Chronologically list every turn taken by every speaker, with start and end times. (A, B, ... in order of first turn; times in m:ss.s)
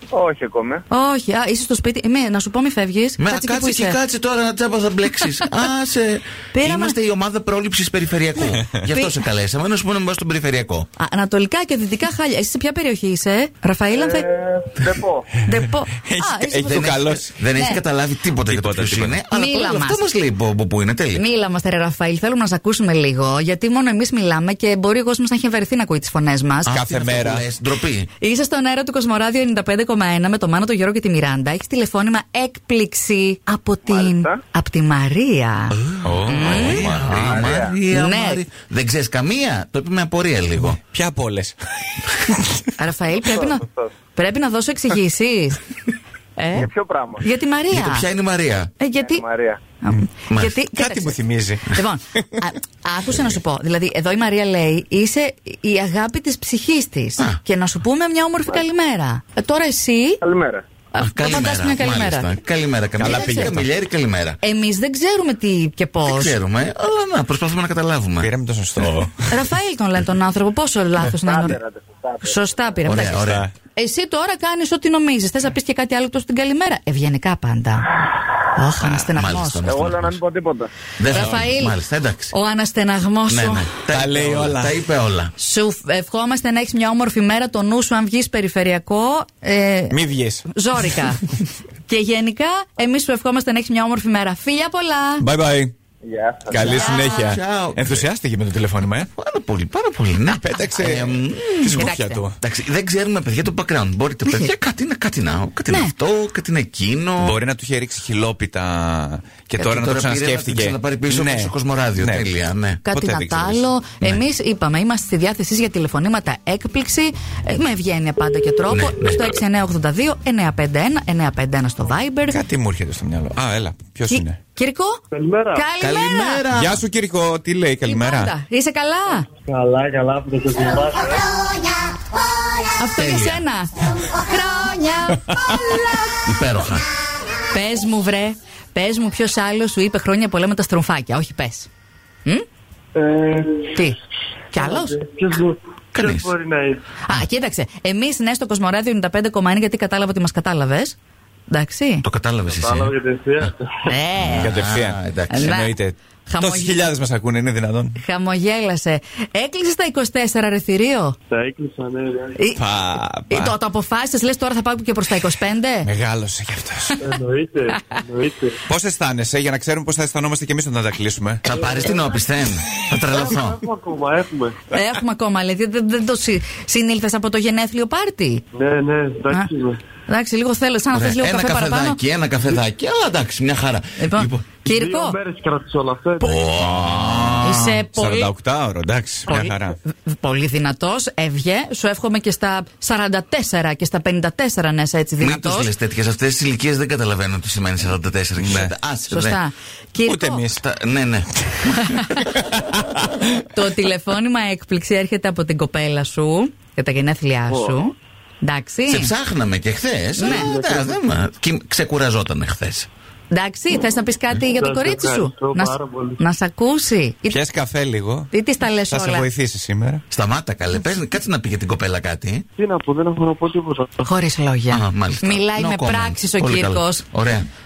0:00.1-0:00.8 A
0:00.9-0:04.0 B
0:03.2-0:10.9 C
0:06.5-0:07.0 B
0:08.4-0:08.8 D
0:08.9-0:09.1 B
0:11.0-0:14.3 B
0:13.9-0:15.3 A
0:15.4-0:16.9 B
0:16.0-0:17.3 D
0:16.6-0:21.2 C
0:17.5-0:17.8 B
0:18.4-0:19.2 D
0:19.3-0:20.0 B
0:21.1-0:26.7 B
0:26.6-0:28.1 C
0:26.7-0:27.4 D
0:28.2-0:36.9 B
0:33.8-0:34.4 A
0:35.8-0:40.8 C
0:36.0-0:37.5 D
0:37.2-0:37.8 A
0:37.9-0:38.4 B
0:40.6-0:42.6 D
0:42.8-0:45.7 B
0:43.2-0:43.9 A
0:46.4-0:48.0 B
0:46.5-0:47.2 A
0:47.7-0:48.7 C
0:48.8-0:49.2 B
0:49.0-0:49.6 A
0:49.8-1:00.2 B
0:50.3-0:50.6 C
0:50.7-0:52.4 D
1:00.2-1:00.6 A
1:00.9-1:02.3 B
1:01.0-1:04.4 C
1:03.0-1:03.7 D
1:03.0-1:03.5 B
1:04.4-1:06.4 B
1:06.1-1:08.3 C
1:08.2-1:09.4 D
1:09.3-1:11.6 B
1:11.1-1:12.4 A
1:12.2-1:13.2 B
1:12.8-1:13.5 C
1:13.0-1:13.5 D
1:13.7-1:18.0 B
1:18.5-1:19.6 B
1:18.8-1:19.1 D
1:19.1-1:20.2 C
1:19.6-1:20.7 A
1:21.0-1:22.3 C
1:21.1-1:21.8 B
1:21.1-1:21.4 D
1:22.3-1:23.7 B
1:23.3-1:25.3 C
1:23.9-1:24.8 D
1:25.4-1:31.4 B
1:29.9-1:30.5 D
1:31.9-1:35.2 B
1:35.2-1:35.7 D
1:36.0-1:37.0 A
1:36.5-1:39.1 D
1:36.6-1:37.3 B
1:36.6-1:38.1 C
1:39.1-1:47.4 C
1:40.3-1:42.4 D
1:41.7-1:42.2 B
1:44.2-1:44.5 B
1:45.7-1:45.9 B
1:47.2-1:52.3 D
1:49.6-1:52.8 C
1:52.8-2:02.4 B
1:52.8-1:54.2 D
1:58.7-1:59.4 C
2:02.3-2:04.4 D
2:04.1-2:05.0 B
2:05.1-2:05.6 E
2:05.5-2:06.4 B
2:05.8-2:06.8 C
2:06.5-2:08.3 D
2:07.8-2:09.3 B
2:09.4-2:11.2 E
2:12.7-2:15.9 B
2:13.0-2:13.4 C
2:15.3-2:15.8 D
2:16.2-2:16.8 C
2:17.5-2:21.7 B
2:22.9-2:23.8 E
2:23.7-2:24.0 B
2:24.5-2:25.0 B
2:24.6-2:26.8 E
2:25.9-2:26.3 C
2:27.0-2:31.0 B
2:31.5-2:32.0 B
2:32.0-2:32.9 C
2:32.6-2:33.8 E
2:33.9-2:34.6 B
2:34.2-2:35.5 C
2:34.3-2:38.0 D
2:35.3-2:35.7 B
2:36.3-2:36.9 B
2:38.0-2:41.2 B
2:41.3-2:42.3 E
2:42.4-2:42.6 B
2:42.5-2:43.5 D
2:43.3-2:45.9 B
2:45.8-2:47.0 D
2:47.0-2:48.6 E
2:48.7-2:51.4 D
2:51.4-2:53.6 C
2:53.1-2:54.6 E
2:54.7-2:58.4 B
2:58.5-2:59.8 E
3:00.1-3:02.0 B
3:00.9-3:04.5 C
3:04.0-3:05.2 B
3:04.7-3:06.4 E
3:06.2-3:07.8 C
3:06.5-3:09.8 D
3:07.4-3:08.3 B
3:09.3-3:15.7 B
3:15.2-3:19.4 C
3:18.4-3:18.7 D
3:19.1-3:20.4 B
3:20.0-3:20.6 D
3:20.5-3:22.1 C
3:21.8-3:22.2 B
3:22.2-3:23.3 D
3:23.5-3:29.1 B
3:28.9-3:32.9 C
3:30.2-3:30.5 B
3:30.4-3:31.0 E
3:33.3-3:37.4 B
3:34.4-3:36.2 E
3:37.3-3:38.3 D
3:38.3-3:39.3 B
3:38.9-3:40.0 D
3:40.1-3:42.4 C
3:42.6-3:43.9 E
3:44.0-3:47.0 B
3:44.7-3:47.5 C